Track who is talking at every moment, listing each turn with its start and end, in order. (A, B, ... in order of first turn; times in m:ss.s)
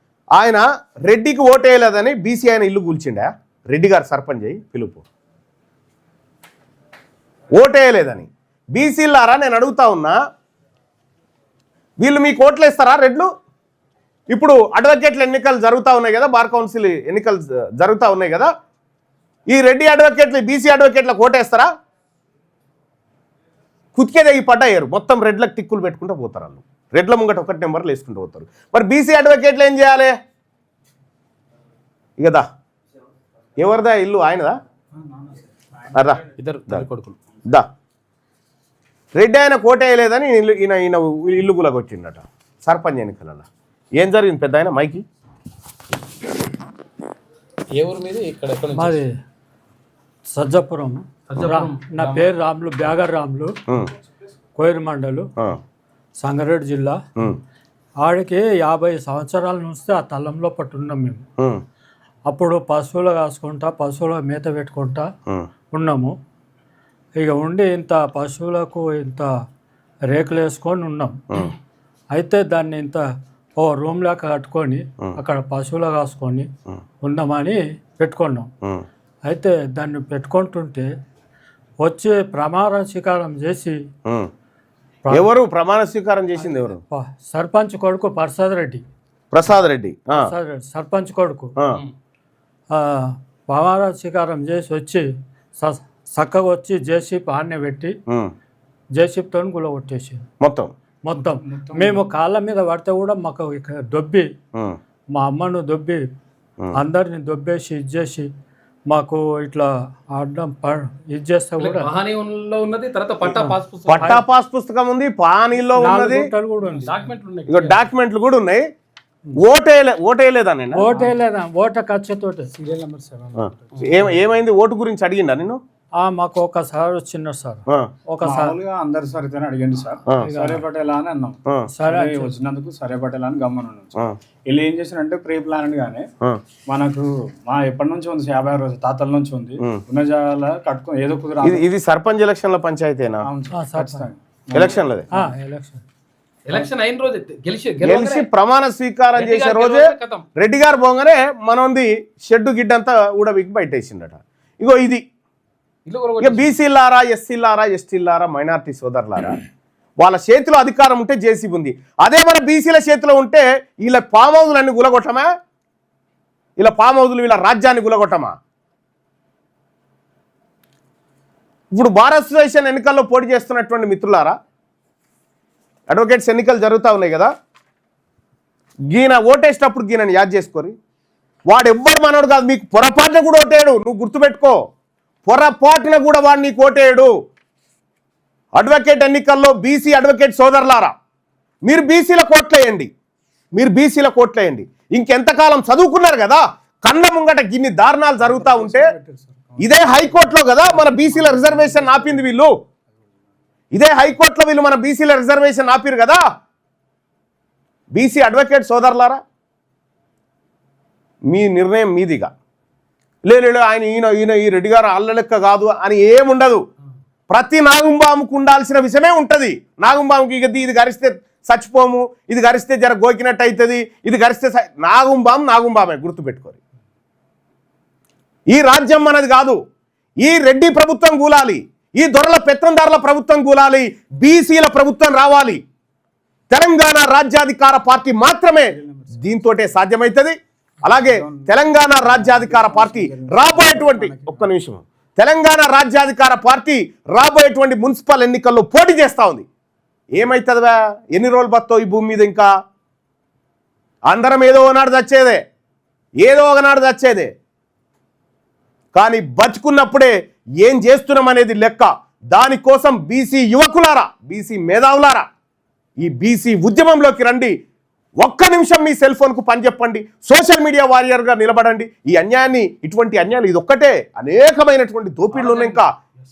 0:00.4-0:05.0 A
0:07.6-0:10.2 A
0:12.0-0:13.3 A
0:14.3-0:18.5 A
0:19.5-0:21.7 A
0:24.0-0:30.1 A
0:32.2-0:32.5 A
0:33.6-0:34.6 A
0:35.0-0:35.4 B
0:35.9-0:36.9 A
0:36.4-0:37.2 C
0:39.2-0:45.0 A
0:47.8-0:49.0 C
0:48.8-0:49.1 D
0:50.3-0:53.5 D
0:51.3-0:52.3 C
0:54.6-0:55.3 D
0:56.2-0:57.0 D
0:58.0-1:01.2 D
1:02.3-1:05.0 D
1:05.7-1:06.1 D
1:07.2-1:09.3 D
1:10.1-1:11.4 D
1:12.1-1:13.0 D
1:13.6-1:16.5 D
1:17.0-1:18.5 D
1:19.3-1:20.9 D
1:21.8-1:23.8 D
1:25.0-1:25.3 D
1:25.1-1:26.8 A
1:26.4-1:28.8 D
1:29.3-1:30.3 A
1:30.1-1:31.5 D
1:32.7-1:35.0 D
1:35.6-1:37.9 D
1:39.0-1:40.2 D
1:40.4-1:40.7 A
1:41.0-1:44.3 D
1:41.2-1:42.1 B
1:45.1-1:46.0 D
1:46.8-1:48.3 D
1:48.9-1:51.9 D
1:51.6-1:54.2 C
1:53.2-1:54.2 D
1:53.9-1:56.3 A
1:55.7-1:57.0 D
1:56.6-1:57.8 C
1:57.5-1:58.7 A
1:59.4-2:00.9 A
2:00.7-2:02.5 D
2:02.5-2:04.2 B
2:03.4-2:05.6 A
2:06.0-2:08.6 D
2:08.2-2:16.1 B
2:10.2-2:10.6 D
2:11.7-2:12.3 D
2:16.7-2:21.6 B
2:21.4-2:23.3 A
2:23.2-2:25.3 B
2:23.5-2:24.1 D
2:24.5-2:25.1 A
2:25.1-2:25.8 D
2:26.5-2:28.3 C
2:27.8-2:35.0 A
2:29.1-2:30.2 C
2:35.8-2:36.5 C
2:36.2-2:39.4 A
2:40.0-2:45.3 A
2:46.6-2:48.3 A
2:51.8-2:54.4 A
2:55.9-2:57.3 A
2:58.9-3:00.8 A
3:01.5-3:04.6 A
3:05.2-3:07.1 A
3:08.6-3:10.9 A
3:11.7-3:12.9 A
3:13.5-3:18.9 A
3:18.2-3:22.3 B
3:19.6-3:22.5 A
3:23.7-3:26.2 A
3:27.9-3:29.2 A
3:31.3-3:32.3 A
3:33.2-3:36.6 A
3:37.3-3:46.6 A
3:48.5-3:49.6 A
3:50.2-3:55.6 A
3:56.5-4:09.4 A
3:58.7-3:59.3 B
4:00.8-4:04.5 B
4:10.1-4:12.5 A
4:14.1-4:15.4 A
4:16.2-4:17.3 A
4:18.9-4:25.2 A
4:26.0-4:27.5 A
4:28.2-4:35.9 A
4:35.3-4:35.8 C